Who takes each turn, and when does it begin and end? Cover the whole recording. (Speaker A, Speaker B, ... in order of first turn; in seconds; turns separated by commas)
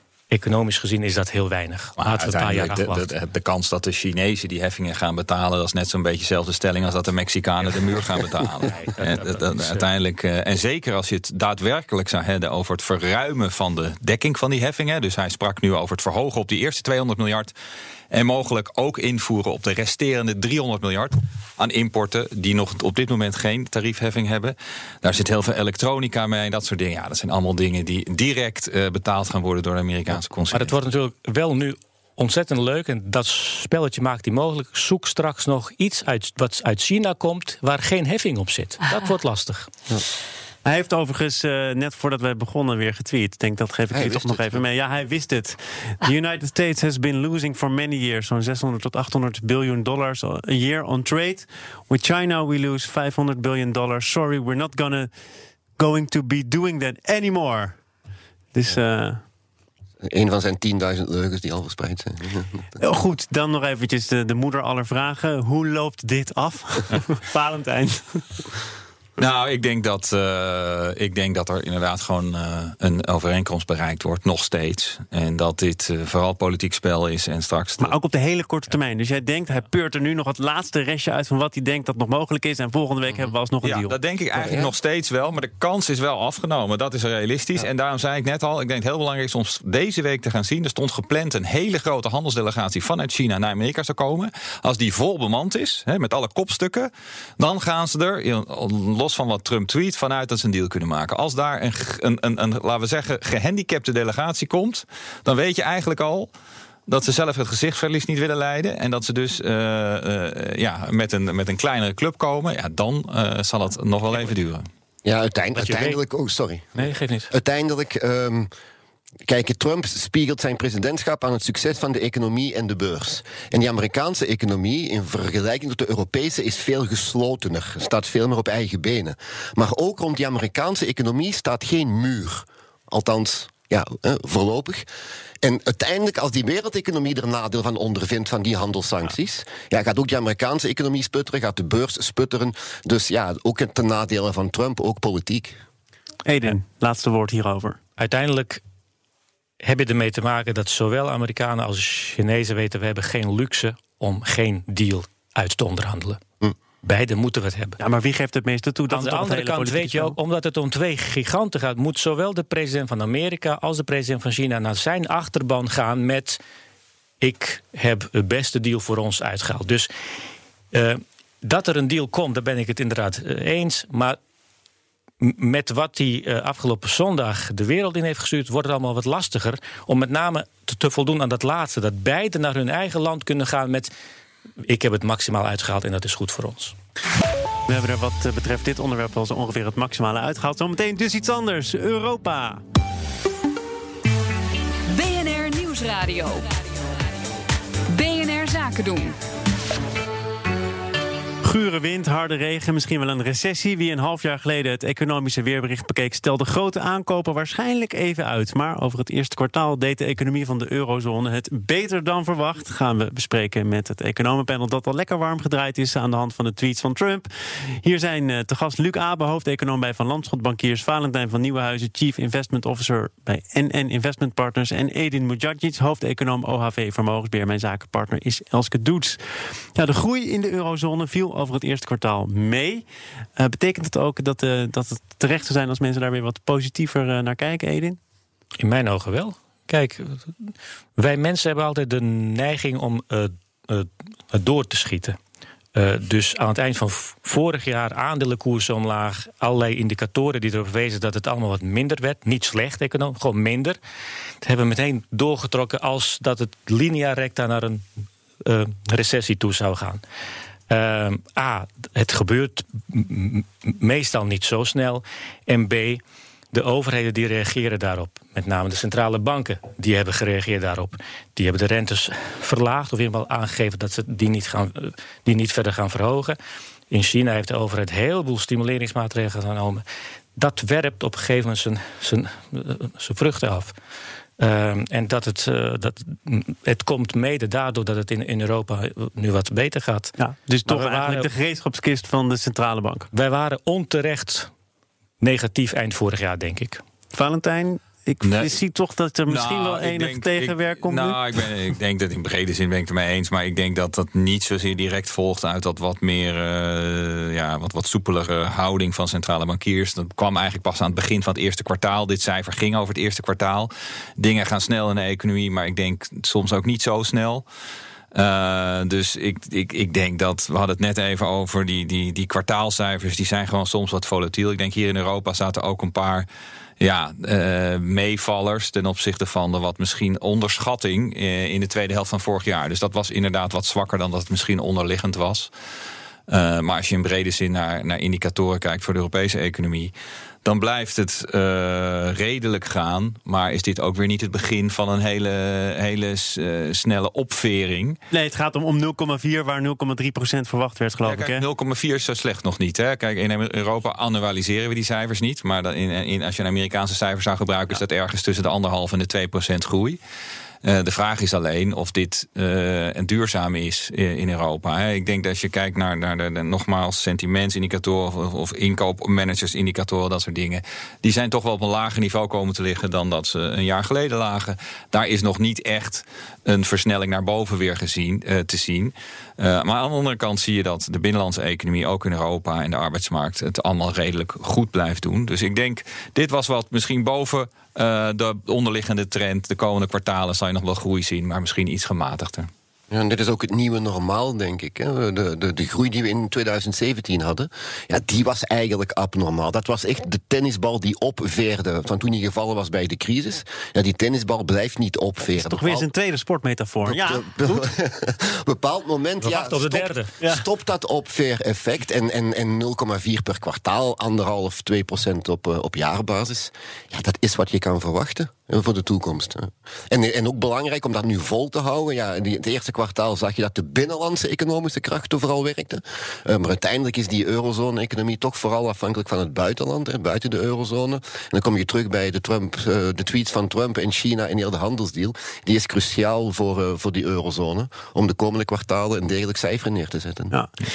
Speaker A: 0.3-3.1, Speaker B: 2.0-17.5, Speaker A: 8.6-9.9, Speaker B: 18.1-30.7, Speaker A: 30.5-39.7, Speaker C: 40.6-55.1, Speaker D: 43.9-44.6, Speaker C: 55.8-57.8, Speaker C: 58.5-59.2, Speaker D: 60.0-62.6, Speaker C: 62.8-68.5, Speaker B: 69.2-78.0, Speaker C: 77.8-83.9, Speaker B: 83.6-106.3, Speaker D: 84.4-84.7, Speaker B: 106.9-114.7, Speaker D: 115.0-118.5, Speaker A: 115.5-116.0, Speaker A: 116.8-117.3, Speaker D: 119.3-134.8, Speaker D: 135.4-145.6, Speaker C: 146.2-147.8, Speaker A: 148.0-148.6, Speaker A: 149.6-156.2, Speaker A: 156.8-157.8, Speaker C: 157.8-160.2, Speaker A: 158.9-166.4, Speaker A: 167.2-169.9, Speaker A: 170.7-174.2, Speaker A: 175.2-183.9, Speaker A: 184.7-186.8, Speaker C: 187.7-192.6, Speaker E: 194.9-196.5, Speaker E: 197.9-199.2, Speaker C: 201.4-217.3, Speaker C: 217.8-232.9, Speaker C: 233.4-238.0, Speaker A: 238.6-245.2, Speaker A: 245.8-253.8, Speaker A: 254.4-257.9, Speaker A: 258.4-260.0, Speaker A: 260.7-266.0, Speaker A: 266.5-276.4, Speaker A: 276.9-279.8, Speaker A: 280.4-283.7, Speaker A: 284.4-290.1, Speaker C: 290.2-293.1, Speaker A: 290.6-291.3, Speaker A: 293.1-294.5, Speaker A: 295.2-296.8, Speaker C: 297.1-301.2, Speaker B: 298.2-298.6, Speaker B: 299.3-317.4, Speaker B: 318.1-326.3, Speaker B: 326.8-335.5, Speaker B: 336.3-339.9, Speaker B: 340.4-348.0, Speaker C: 348.1-351.4, Speaker B: 351.0-360.0, Speaker B: 360.6-392.5, Speaker D: 392.9-405.9, Speaker C: 405.3-407.7, Speaker D: 406.9-440.3, Speaker A: 409.2-410.1, Speaker C: 440.3-440.6